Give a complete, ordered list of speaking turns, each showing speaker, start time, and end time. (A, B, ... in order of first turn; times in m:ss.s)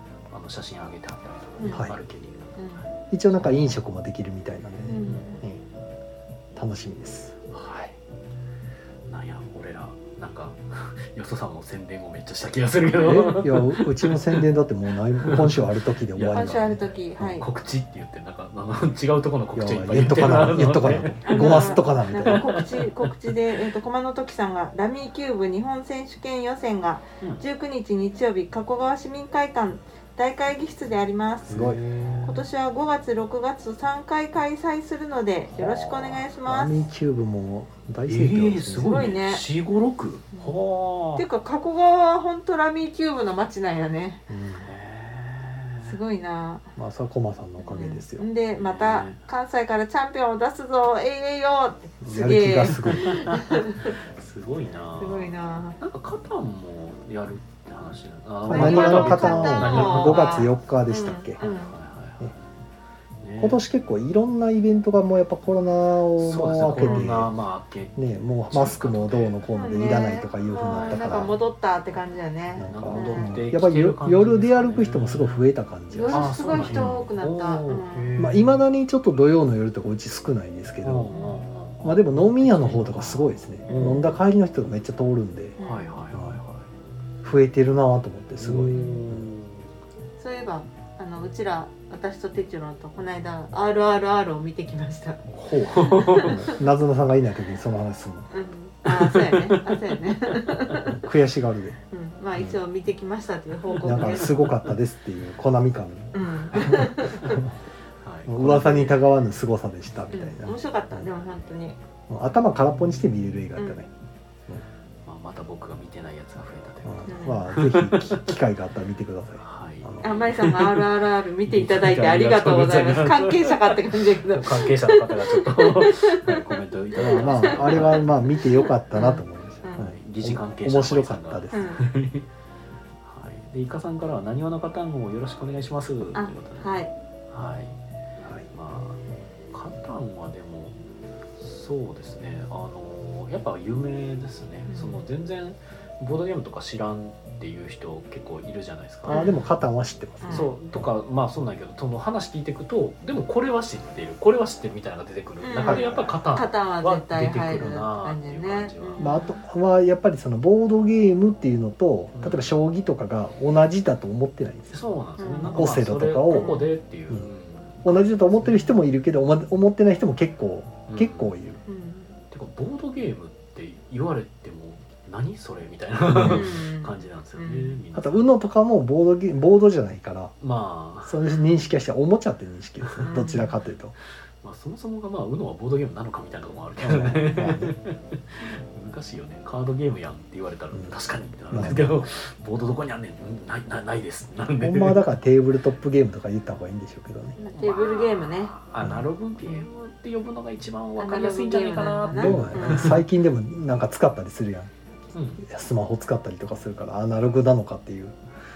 0:00.3-0:02.8 A
0:01.6-0:01.9 B
0:02.6-0:02.8 B
0:03.1-0:05.6 C
0:04.9-0:05.4 B
0:06.6-0:07.4 C
0:07.5-0:08.0 A
0:09.1-0:14.5 A
0:12.9-0:13.4 B
0:13.1-0:16.8 C
0:15.2-0:23.1 A
0:16.3-0:17.5 B
0:19.6-0:22.5 C
0:21.3-0:31.6 B
0:31.4-0:32.4 A
0:31.5-0:31.8 C
0:32.2-0:36.8 B
0:35.6-0:36.2 A
0:36.5-0:39.1 C
0:38.1-0:41.2 A
0:38.8-0:39.4 B
0:41.2-0:44.2 B
0:44.3-0:44.7 C
0:44.6-0:46.0 A
0:45.8-0:46.8 B
0:46.8-0:48.3 C
0:47.6-0:54.0 B
0:48.6-0:49.2 A
0:52.0-0:53.3 C
0:52.9-1:00.4 A
0:55.0-0:55.8 B
0:58.4-1:01.4 C
0:58.5-1:01.8 B
1:01.4-1:02.4 A
1:03.2-1:03.6 A
1:03.4-1:07.3 C
1:06.2-1:09.4 A
1:06.8-1:07.1 B
1:08.0-1:11.3 C
1:09.5-1:13.3 B
1:10.7-1:11.2 A
1:12.6-1:17.1 C
1:12.7-1:15.5 A
1:15.9-1:18.1 B
1:16.1-1:18.6 A
1:18.2-1:21.1 C
1:20.8-1:24.2 A
1:21.1-1:21.4 B
1:21.8-1:25.6 C
1:25.6-1:26.0 B
1:25.6-1:26.7 A
1:26.1-1:26.4 C
1:27.2-1:29.3 C
1:28.4-1:29.7 A
1:28.8-1:29.0 B
1:30.2-1:35.2 B
1:35.3-1:36.5 A
1:35.8-1:36.6 B
1:36.3-1:38.3 C
1:38.3-1:41.0 B
1:38.9-1:39.7 A
1:40.9-1:41.8 C
1:41.9-1:44.5 B
1:43.7-1:44.7 A
1:43.8-1:47.5 C
1:46.1-1:47.4 B
1:48.0-1:49.0 A
1:48.3-1:51.1 C
1:50.1-1:51.8 B
1:52.1-1:53.9 C
1:53.6-1:53.8 B
1:55.1-1:58.4 A
1:56.8-2:00.1 C
1:57.1-1:57.5 B
1:59.4-2:00.8 A
2:00.0-2:06.4 B
2:01.5-2:08.2 A
2:07.0-2:11.6 C
2:07.2-2:09.9 B
2:09.7-2:12.3 A
2:11.5-2:11.9 B
2:13.0-2:16.7 A
2:16.2-2:16.9 B
2:17.3-2:17.8 A
2:18.5-2:20.8 A
2:21.4-2:29.2 A
2:24.7-2:25.0 B
2:29.1-2:29.4 B
2:29.1-2:30.8 C
2:30.2-2:30.5 B
2:30.3-2:39.1 A
2:35.4-2:39.4 B
2:35.6-2:36.1 C
2:39.0-2:44.8 C
2:42.2-2:42.6 A
2:44.7-2:48.8 A
2:45.2-2:45.8 B
2:45.4-2:46.6 C
2:46.3-2:46.8 B
2:47.8-2:51.6 C
2:50.9-2:51.4 A
2:51.7-2:52.2 B
2:52.3-2:58.3 A
2:56.1-2:56.5 C
2:56.2-2:57.8 B
2:57.9-3:00.3 C
3:00.4-3:01.2 A
3:01.0-3:04.0 C
3:03.0-3:03.6 B
3:04.4-3:15.0 A
3:06.8-3:07.8 C
3:11.5-3:12.1 C
3:14.6-3:17.4 C
3:17.4-3:18.6 B
3:17.5-3:23.0 A
3:18.8-3:19.1 C
3:21.0-3:23.0 B
3:22.2-3:24.7 C
3:25.1-3:25.5 A
3:25.4-3:28.2 C